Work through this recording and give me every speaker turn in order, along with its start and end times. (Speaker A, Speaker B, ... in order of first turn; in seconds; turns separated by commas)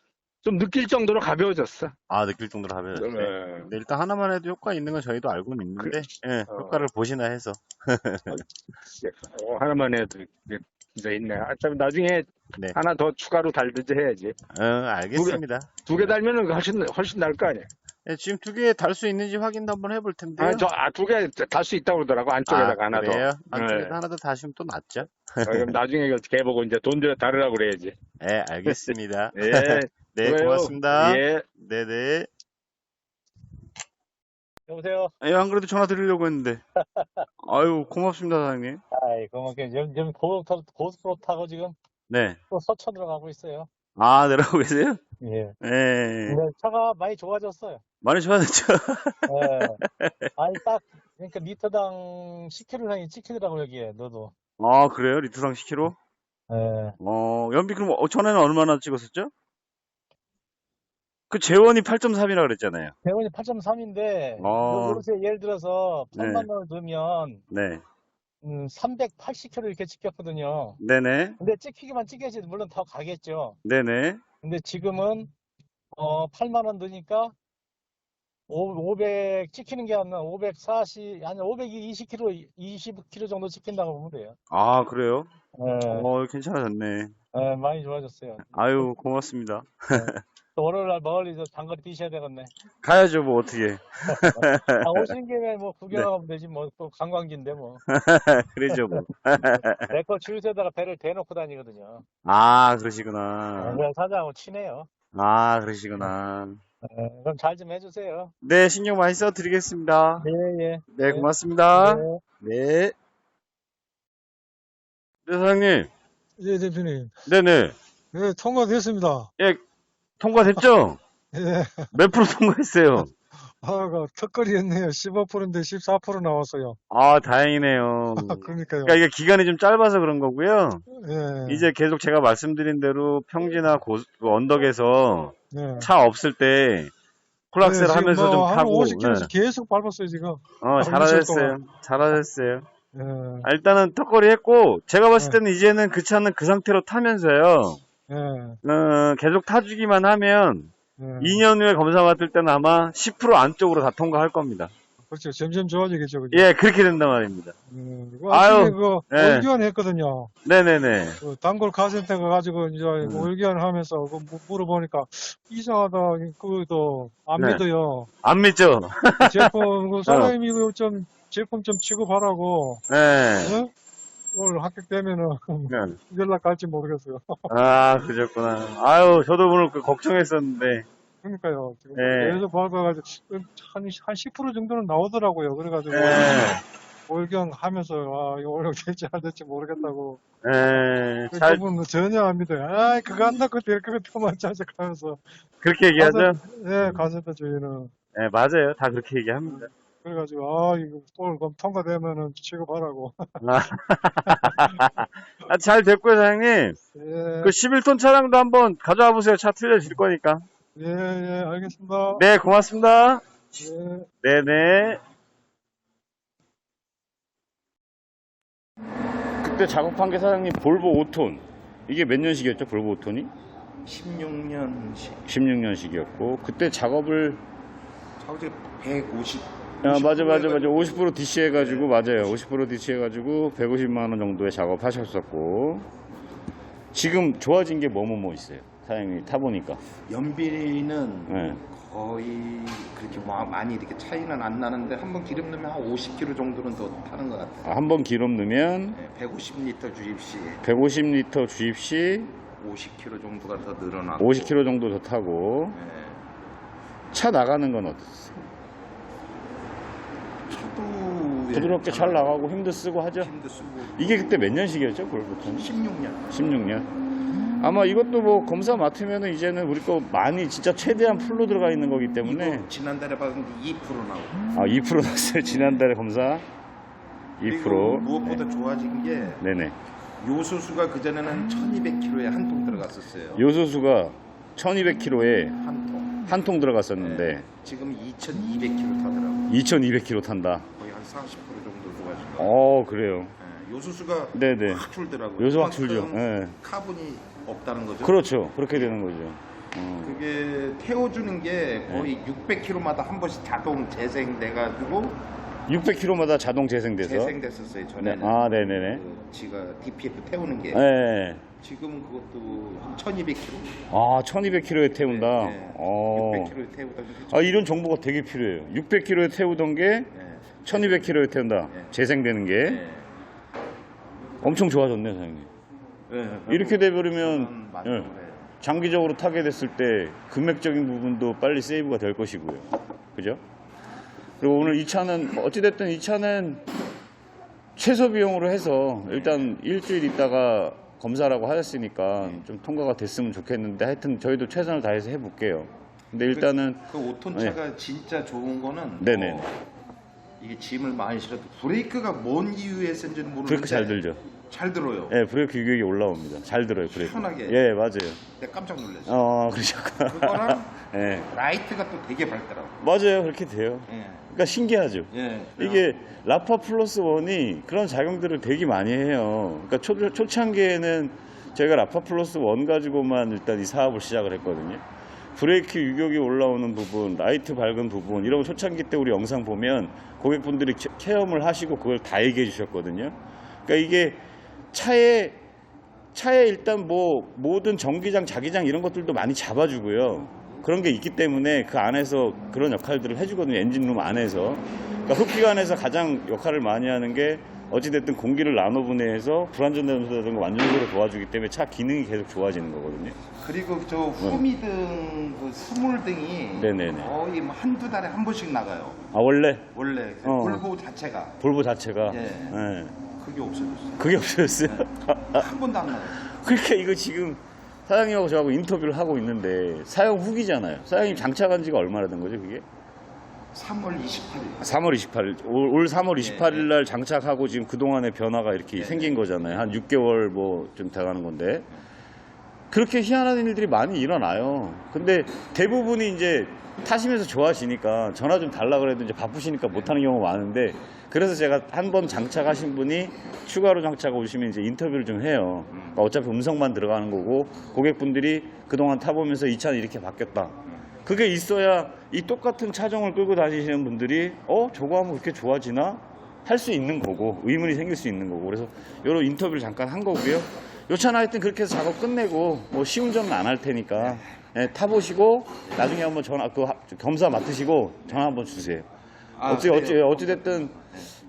Speaker A: 0.4-1.9, Speaker B: 2.1-8.4, Speaker A: 3.0-3.7, Speaker A: 5.8-6.8, Speaker A: 9.0-14.4, Speaker B: 14.5-16.2, Speaker A: 15.1-17.7, Speaker B: 18.1-20.7, Speaker A: 20.4-24.0, Speaker B: 22.5-25.8, Speaker A: 25.4-28.0, Speaker B: 28.2-32.3, Speaker A: 28.7-31.5, Speaker C: 34.7-35.1, Speaker B: 35.2-36.6, Speaker C: 37.0-37.2, Speaker B: 37.4-38.8, Speaker C: 38.9-41.8, Speaker B: 42.1-42.4, Speaker C: 42.5-43.7, Speaker B: 44.0-45.0, Speaker C: 45.2-45.5, Speaker B: 45.6-46.4, Speaker C: 46.3-47.8, Speaker B: 48.0-50.3, Speaker C: 49.3-49.8, Speaker C: 50.4-54.4, Speaker B: 54.6-56.0, Speaker C: 56.5-57.0, Speaker B: 57.0-59.3, Speaker B: 61.3-62.9, Speaker C: 63.0-67.4, Speaker B: 64.4-65.0, Speaker B: 66.2-66.5, Speaker B: 67.5-67.8, Speaker C: 68.4-70.8, Speaker B: 70.8-71.4, Speaker C: 71.4-73.6, Speaker B: 73.7-74.2, Speaker C: 74.4-75.3, Speaker C: 75.9-77.3, Speaker C: 78.5-84.4, Speaker B: 84.5-85.3, Speaker C: 85.6-86.1, Speaker B: 85.9-87.1, Speaker C: 87.3-88.9, Speaker B: 88.5-90.2, Speaker C: 89.9-92.5, Speaker B: 92.8-95.1, Speaker C: 94.1-97.8, Speaker B: 97.9-99.9, Speaker C: 98.7-102.0, Speaker B: 102.2-103.8, Speaker C: 103.6-104.9, Speaker B: 105.1-106.6, Speaker C: 106.8-108.3, Speaker B: 108.4-110.3, Speaker C: 110.2-112.2, Speaker B: 110.9-112.9, Speaker B: 115.2-115.9, Speaker D: 116.4-117.2, Speaker B: 117.3-117.7, Speaker D: 118.1-119.3, Speaker B: 120.2-121.0, Speaker D: 121.3-121.9, Speaker B: 121.9-123.1, Speaker D: 123.5-126.8, Speaker B: 126.9-130.8, Speaker D: 128.2-129.0, Speaker D: 130.9-131.7, Speaker B: 131.5-136.9, Speaker D: 135.5-135.9, Speaker B: 137.5-139.3, Speaker D: 137.6-141.6, Speaker B: 140.6-142.7, Speaker D: 142.9-143.5, Speaker B: 143.4-147.8, Speaker D: 148.1-148.6, Speaker B: 148.6-154.7, Speaker D: 151.0-151.5, Speaker D: 155.1-156.5, Speaker B: 156.3-157.5, Speaker D: 157.7-160.3, Speaker B: 158.3-159.5, Speaker B: 160.4-161.2, Speaker D: 161.2-168.1, Speaker B: 163.0-163.3, Speaker B: 167.4-167.6, Speaker B: 168.2-170.3, Speaker D: 169.2-172.8, Speaker B: 172.9-173.6, Speaker D: 173.4-173.7, Speaker D: 174.3-177.5, Speaker B: 175.7-176.0, Speaker B: 177.5-180.8, Speaker D: 181.2-186.6, Speaker B: 181.9-182.4, Speaker B: 185.9-186.6, Speaker D: 187.1-190.2, Speaker B: 190.4-191.6, Speaker D: 191.3-195.3, Speaker B: 195.6-196.4, Speaker D: 195.9-197.9, Speaker B: 198.2-199.7, Speaker D: 200.0-203.4, Speaker B: 203.4-206.8, Speaker D: 204.3-205.0, Speaker D: 206.9-207.6, Speaker B: 207.4-210.4, Speaker D: 210.8-212.2, Speaker B: 212.2-213.2, Speaker D: 213.5-214.1, Speaker B: 214.2-215.0, Speaker B: 219.4-223.3, Speaker E: 223.8-225.2, Speaker B: 225.3-227.4, Speaker E: 228.2-231.0, Speaker B: 229.8-235.9, Speaker E: 231.5-232.4, Speaker B: 236.9-239.8, Speaker E: 240.0-247.7, Speaker B: 241.3-241.6, Speaker B: 247.6-249.0, Speaker E: 248.9-250.6, Speaker B: 250.6-252.4, Speaker E: 252.5-254.6, Speaker B: 254.2-255.8, Speaker E: 255.7-256.2, Speaker B: 257.1-258.4, Speaker E: 260.5-262.3, Speaker B: 261.5-263.3, Speaker E: 263.2-264.4, Speaker B: 263.9-265.7, Speaker E: 265.4-266.5, Speaker B: 266.3-266.9, Speaker B: 267.6-272.7, Speaker E: 272.2-274.4, Speaker B: 274.5-276.4, Speaker E: 275.5-275.9, Speaker B: 277.4-278.4, Speaker E: 277.4-279.4, Speaker B: 279.4-279.7, Speaker E: 280.2-283.4, Speaker B: 283.4-285.6, Speaker E: 285.6-286.4, Speaker B: 286.3-287.5, Speaker E: 287.0-289.5, Speaker B: 289.5-290.7, Speaker E: 290.8-292.5, Speaker B: 292.4-293.3, Speaker E: 293.4-298.2, Speaker B: 294.3-294.8, Speaker B: 295.4-296.6, Speaker B: 298.0-300.1, Speaker E: 300.0-305.2, Speaker B: 305.7-307.4, Speaker E: 307.0-310.8, Speaker B: 308.0-309.0, Speaker B: 310.7-311.4, Speaker E: 311.6-313.8, Speaker B: 313.9-316.6, Speaker E: 315.1-317.7, Speaker B: 317.3-320.1, Speaker E: 320.1-321.9, Speaker B: 320.6-322.8, Speaker E: 322.6-323.1, Speaker B: 324.4-325.5, Speaker E: 326.1-328.5, Speaker B: 326.5-328.1, Speaker B: 328.6-333.4, Speaker B: 334.4-336.6, Speaker B: 337.8-347.6, Speaker E: 339.1-339.5, Speaker E: 342.2-342.4, Speaker E: 346.3-349.5, Speaker B: 349.0-349.5, Speaker E: 350.4-355.1, Speaker B: 353.5-354.2, Speaker B: 355.1-358.2, Speaker E: 356.9-357.6, Speaker E: 358.3-359.2, Speaker B: 359.1-361.3, Speaker E: 360.1-362.8, Speaker B: 362.8-374.8, Speaker E: 363.9-364.3, Speaker E: 365.1-365.9, Speaker B: 375.4-383.2, Speaker B: 383.7-384.2, Speaker B: 384.7-385.4, Speaker B: 386.1-403.2, Speaker E: 403.3-409.0, Speaker B: 406.6-407.1, Speaker B: 409.1-409.7, Speaker E: 409.7-411.4, Speaker B: 410.2-410.7, Speaker B: 411.4-413.0, Speaker E: 412.1-414.1, Speaker B: 414.0-415.5, Speaker E: 414.6-416.2, Speaker B: 416.2-422.6, Speaker E: 421.0-421.3, Speaker E: 423.5-424.7, Speaker B: 424.6-431.7, Speaker E: 426.2-426.7, Speaker E: 428.8-429.7, Speaker B: 432.7-468.9, Speaker E: 445.7-446.0, Speaker E: 464.0-464.3, Speaker E: 469.4-471.1, Speaker B: 469.5-470.8